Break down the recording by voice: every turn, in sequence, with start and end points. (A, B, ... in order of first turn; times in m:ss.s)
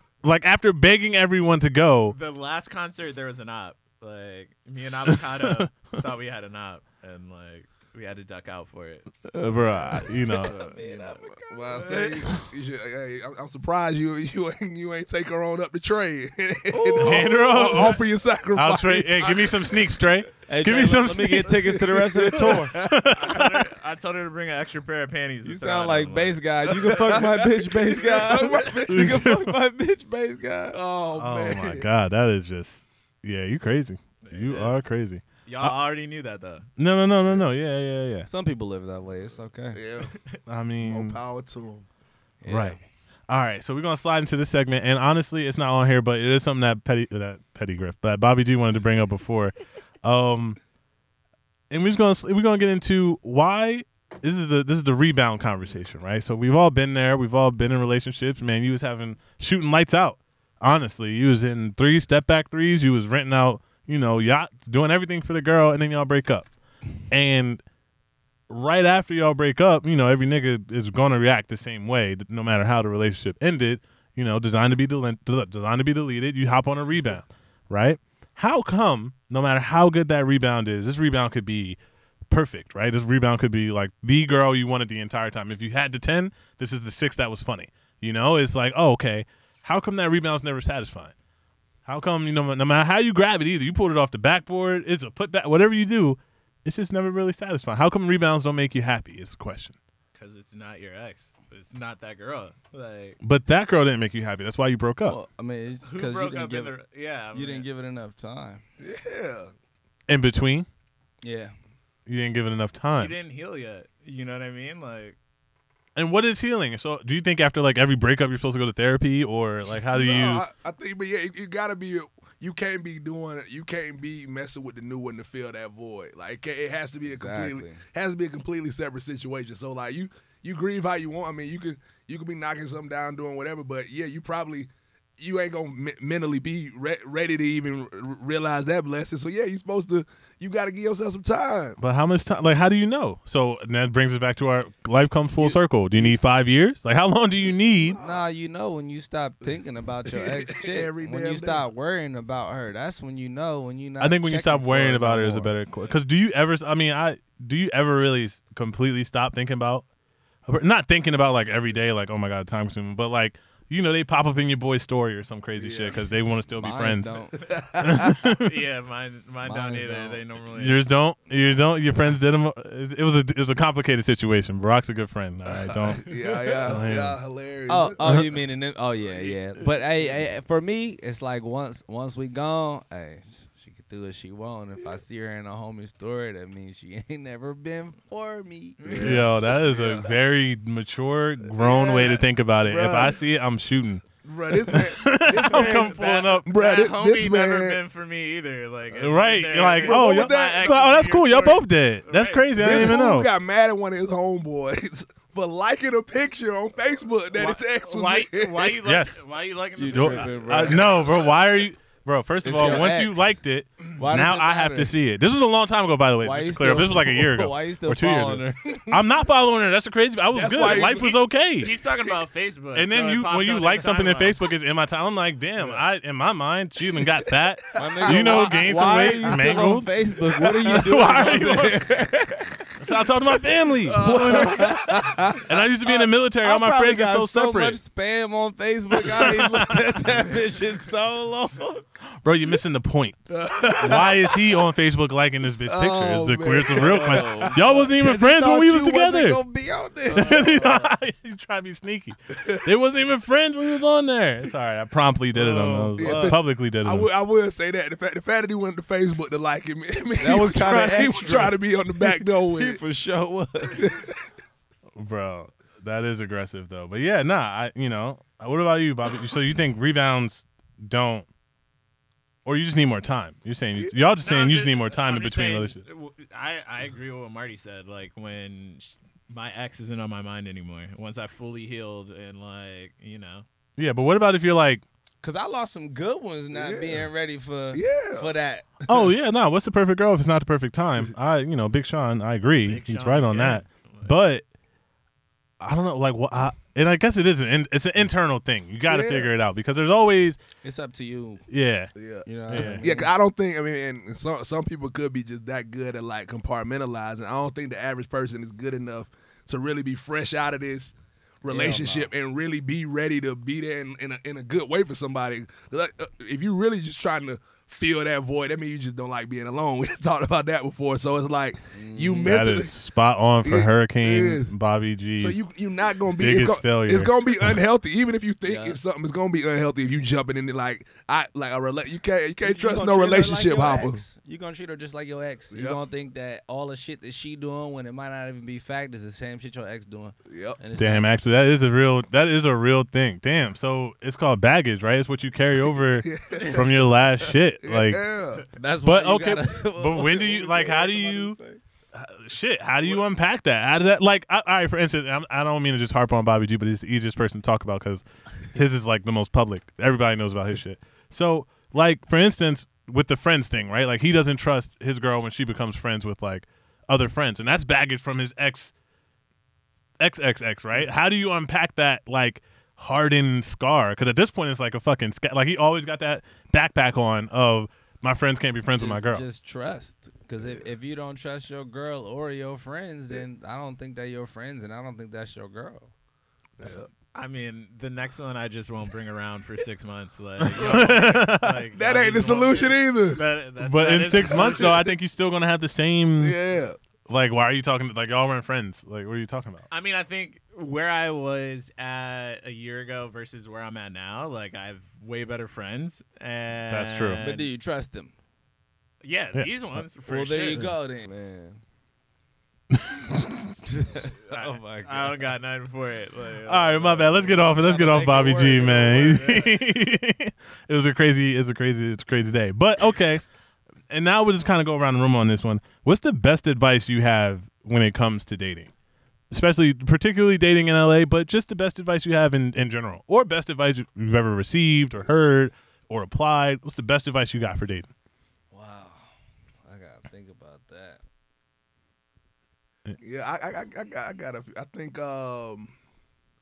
0:00.2-0:02.2 A
0:02.1-0:09.1 B
0:05.0-0:06.0 A
0:09.3-0:10.5 A
0:09.9-0:12.1 B
0:10.3-0:12.3 C
0:11.5-0:19.4 D
0:16.7-0:18.0 C
0:17.0-0:18.0 A
0:18.5-0:23.6 A
0:19.2-0:19.9 B
0:20.5-0:22.8 C
0:22.2-0:23.1 D
0:23.1-0:27.3 B
0:25.4-0:30.8 C
0:26.7-0:29.3 D
0:27.9-0:28.7 B
0:28.9-0:29.6 A
0:30.7-0:31.9 D
0:31.2-0:35.8 A
0:34.2-0:34.8 B
0:35.5-0:36.7 B
0:36.8-0:38.3 A
0:38.3-0:39.8 C
0:39.7-0:40.1 D
0:40.1-0:40.4 B
0:40.5-0:41.2 A
0:40.8-0:41.9 D
0:42.4-0:42.8 C
0:42.5-0:42.8 A
0:43.3-0:50.6 A
0:51.7-1:06.5 A
1:07.1-1:07.6 A
1:08.5-1:21.8 A
1:22.3-1:31.1 A
1:31.8-1:39.8 A
1:40.2-1:43.2 B
1:43.2-1:45.2 A
1:45.0-1:46.8 C
1:45.8-1:47.7 B
1:47.3-1:48.6 C
1:48.8-1:49.5 D
1:50.1-1:50.7 A
1:51.2-1:51.5 C
1:52.1-1:53.1 A
1:53.0-1:55.2 B
1:56.0-2:00.4 A
1:59.9-2:21.8 D
2:07.0-2:07.8 C
2:21.8-2:28.0 A
2:25.4-2:26.1 D
2:27.8-2:28.3 D
2:28.0-2:35.6 C
2:30.1-2:31.6 D
2:34.0-2:39.8 A
2:40.5-2:47.2 A
2:45.6-2:46.0 D
2:46.5-2:47.5 C
2:47.4-2:48.2 D
2:47.8-2:48.5 A
2:48.2-2:50.9 B
2:49.4-2:50.2 C
2:50.5-2:56.1 A
2:55.5-2:58.4 D
2:56.1-2:56.6 B
2:56.6-2:57.2 A
2:57.7-3:09.2 C
3:08.8-3:10.1 D
3:08.9-3:09.2 B
3:09.0-3:16.5 A
3:11.5-3:13.2 D
3:14.2-3:17.8 D
3:15.4-3:23.0 B
3:18.9-3:23.3 A
3:19.8-3:20.7 D
3:22.6-3:28.8 D
3:27.3-3:30.7 B
3:28.8-3:29.2 A
3:29.8-3:31.0 C
3:29.9-3:41.8 A
3:30.6-3:31.0 D
3:32.4-3:33.4 C
3:34.0-3:34.9 C
3:36.2-3:39.0 C
3:40.3-3:41.2 D
3:40.6-3:44.4 B
3:42.8-3:51.8 A
3:47.7-3:49.4 D
3:47.7-3:52.7 C
3:50.7-3:51.5 D
3:52.8-3:57.8 A
3:53.9-3:55.5 D
3:53.9-3:55.3 C
3:55.9-4:01.8 C
3:59.2-3:59.5 D
4:02.2-4:03.2 A
4:03.3-4:04.3 D
4:03.8-4:09.4 A
4:05.7-4:07.6 D
4:06.7-4:10.9 C
4:10.1-4:17.1 A
4:10.1-4:10.6 D
4:15.3-4:16.4 C
4:16.0-4:22.8 D
4:20.2-4:24.0 C
4:23.7-4:24.1 D
4:25.0-4:31.3 A
4:32.4-4:35.8 A
4:33.8-4:43.4 B
4:43.8-4:44.8 A
4:45.2-4:48.8 C
4:46.5-4:47.1 D
4:47.7-4:48.3 D
4:48.9-4:54.4 A
4:52.6-4:54.1 B
4:55.6-5:00.4 A
4:58.9-4:59.3 D
5:00.6-5:01.4 C
5:01.5-5:01.9 A
5:02.0-5:22.7 D
5:02.2-5:03.1 C
5:02.5-5:02.9 A
5:11.5-5:12.1 C
5:21.7-5:22.4 C
5:22.2-5:25.4 A
5:23.4-5:24.5 D
5:25.2-5:34.0 D
5:26.2-5:27.5 A
5:28.4-5:28.8 C
5:32.4-5:41.1 C
5:35.5-5:35.8 D
5:40.3-5:40.6 D
5:40.8-5:48.0 A
5:45.9-5:48.5 D
5:48.5-5:51.6 C
5:48.8-5:51.4 A
5:51.9-6:08.7 A
6:10.0-6:19.2 A
6:18.8-6:25.9 C
6:26.6-6:26.9 D
6:27.1-6:34.8 B
6:30.4-6:31.7 A
6:30.6-6:31.0 D
6:31.7-6:33.2 D
6:33.6-6:36.4 A
6:34.1-6:35.0 D
6:36.2-6:36.8 D
6:37.1-6:39.7 A
6:39.7-6:47.5 B
6:46.7-6:47.2 A
6:47.2-6:48.1 C
6:49.0-6:50.7 B
6:49.3-6:49.8 A
6:50.1-6:51.6 C
6:52.7-6:53.6 A
6:53.7-6:55.3 C
6:54.3-6:57.6 B
6:56.4-7:03.2 A
6:57.4-6:59.4 C
6:58.2-6:59.6 B
7:03.9-7:08.7 A
7:09.3-7:17.9 A
7:18.5-7:19.1 C
7:19.6-7:21.0 C
7:23.0-7:25.7 D